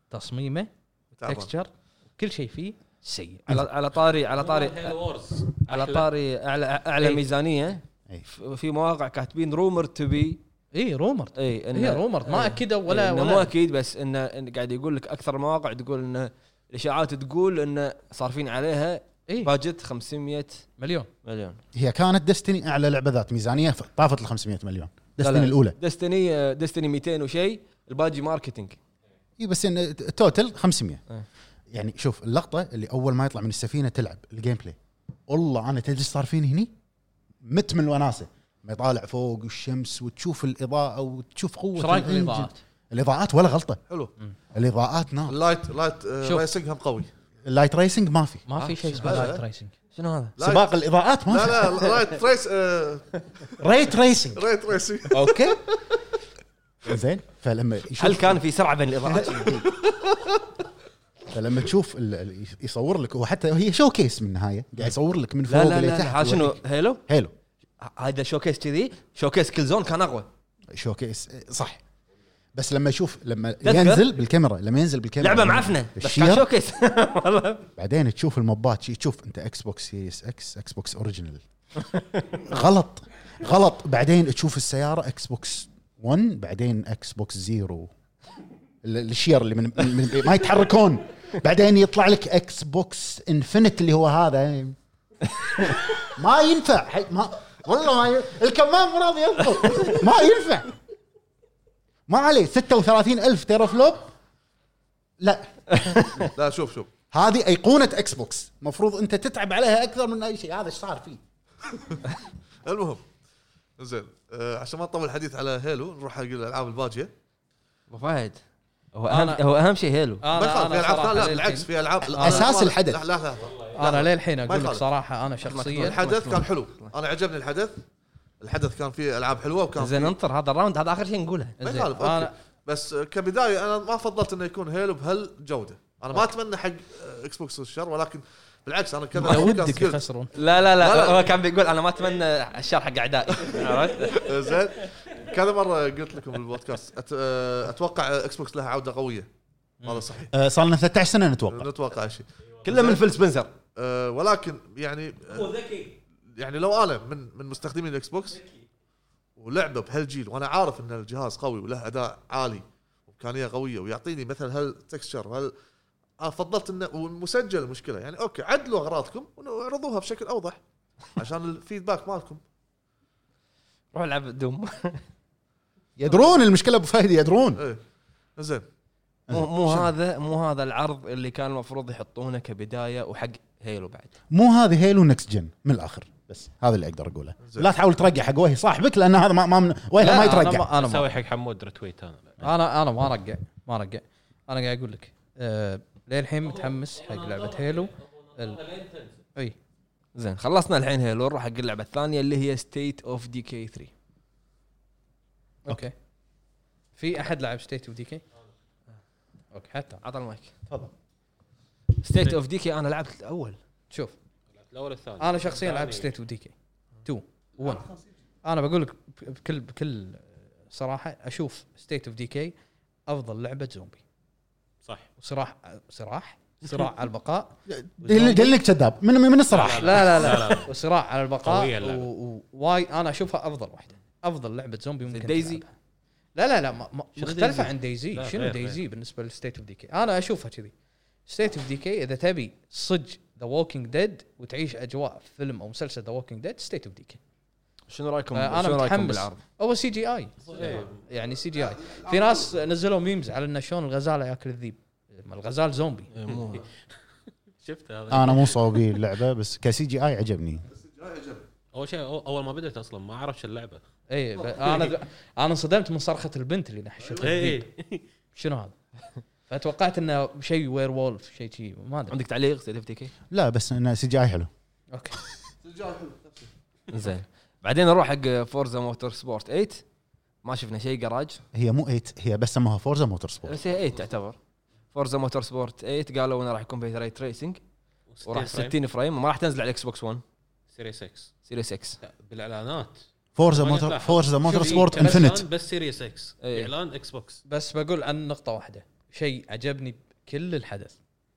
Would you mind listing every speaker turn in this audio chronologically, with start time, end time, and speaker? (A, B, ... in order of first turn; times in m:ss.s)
0:00.1-0:00.7 A
0:01.2-0:01.5 B
0:01.2-0:03.6 A
0:03.5-0:05.0 C
0:04.3-0:06.1 D
0:05.5-0:10.4 C
0:10.7-0:13.5 A
0:11.4-0:20.7 C
0:20.8-0:21.1 A
0:21.2-0:21.6 C
0:21.8-0:25.8 E
0:25.2-0:28.8 C
0:29.4-0:31.0 E
0:31.7-0:34.8 E
0:35.3-0:36.7 E
0:37.4-0:43.8 E
0:41.8-0:42.6 A
0:44.5-0:45.4 E
0:45.3-0:47.1 B
0:46.2-0:46.5 A
0:47.4-0:48.4 E
0:48.5-0:49.7 A
0:48.6-0:49.3 C
0:49.0-0:49.4 B
0:50.0-0:50.4 C
0:50.4-0:50.7 B
0:50.4-0:51.9 E
0:51.3-0:53.6 B
0:53.6-0:54.4 E
0:54.3-0:55.6 B
0:55.1-0:55.6 E
0:56.8-0:58.4 E
0:58.0-0:59.6 C
0:59.0-0:59.7 E
1:01.3-1:07.3 E
1:05.5-1:07.0 C
1:07.8-1:10.3 C
1:10.7-1:11.8 E
1:12.6-1:16.5 E
1:13.6-1:14.1 C
1:15.2-1:17.7 C
1:17.8-1:21.4 E
1:22.4-1:27.9 E
1:28.8-1:34.8 E
1:36.0-1:40.7 E
1:42.1-1:44.1 E
1:45.2-1:46.3 E
1:46.0-1:46.3 C
1:46.3-1:46.9 B
1:47.1-1:51.2 E
1:52.6-1:53.0 B
1:53.8-1:57.1 B
1:57.9-1:58.4 C
1:59.0-2:00.2 C
1:59.1-1:59.4 A
2:00.2-2:02.5 A
2:00.3-2:04.8 B
2:02.1-2:03.0 E
2:03.8-2:06.0 A
2:05.4-2:06.9 C
2:05.8-2:07.8 B
2:08.4-2:10.1 B
2:09.8-2:11.6 C
2:11.6-2:12.3 A
2:11.6-2:20.0 B
2:19.2-2:20.3 A
2:20.4-2:24.4 C
2:20.8-2:21.3 B
2:23.4-2:29.3 B
2:29.8-2:30.1 A
2:29.8-2:30.3 B
2:30.3-2:31.7 E
2:31.5-2:33.0 B
2:32.6-2:33.5 C
2:33.8-2:35.5 B
2:35.3-2:36.0 D
2:36.4-2:38.4 B
2:39.4-2:45.5 B
2:46.2-2:50.6 B
2:51.2-2:52.4 B
2:53.9-2:55.0 C
2:56.0-2:57.6 E
2:57.6-2:57.8 B
2:58.4-2:58.6 B
2:59.3-2:59.9 E
2:59.3-3:04.1 C
3:04.3-3:10.7 E
3:07.4-3:07.7 B
3:10.0-3:11.1 A
3:10.7-3:12.4 D
3:12.4-3:18.6 A
3:16.4-3:19.2 D
3:20.2-3:23.9 C
3:25.7-3:25.9 A
3:27.0-3:28.2 A
3:29.5-3:30.0 A
3:30.0-3:30.5 C
3:32.0-3:33.6 C
3:34.6-3:36.1 D
3:35.2-3:36.5 A
3:37.0-3:37.9 A
3:38.4-3:42.5 A
3:43.1-3:44.0 A
3:45.2-3:48.6 A
3:47.7-3:50.4 E
3:49.5-3:50.7 D
3:49.7-3:55.7 A
3:51.4-3:52.1 D
3:55.1-3:55.6 C
3:56.4-4:00.7 A
3:57.2-3:58.8 D
4:01.3-4:07.2 A
4:07.9-4:09.4 C
4:08.3-4:16.1 A
4:10.5-4:11.0 D
4:10.6-4:10.9 B
4:11.6-4:12.5 B
4:16.1-4:16.6 C
4:16.3-4:16.6 D
4:17.6-4:19.0 D
4:18.1-4:20.7 E
4:20.7-4:21.5 B
4:21.7-4:23.8 D
4:24.1-4:27.7 A
4:24.4-4:24.9 B
4:27.2-4:28.1 D
4:28.3-4:28.8 A
4:29.5-4:32.2 A
4:32.1-4:33.1 C
4:33.3-4:34.5 E
4:35.6-4:36.5 B
4:36.9-4:39.8 C
4:40.4-4:41.4 C
4:41.5-4:43.6 E
4:43.5-4:44.4 C
4:44.9-4:47.6 C
4:48.1-4:48.8 D
4:48.2-4:50.2 C
4:50.7-4:51.3 D
4:51.5-4:52.0 C
4:52.0-4:57.4 D
4:53.4-4:55.5 E
4:54.5-4:55.3 A
4:56.4-4:56.7 C
4:57.5-5:01.0 A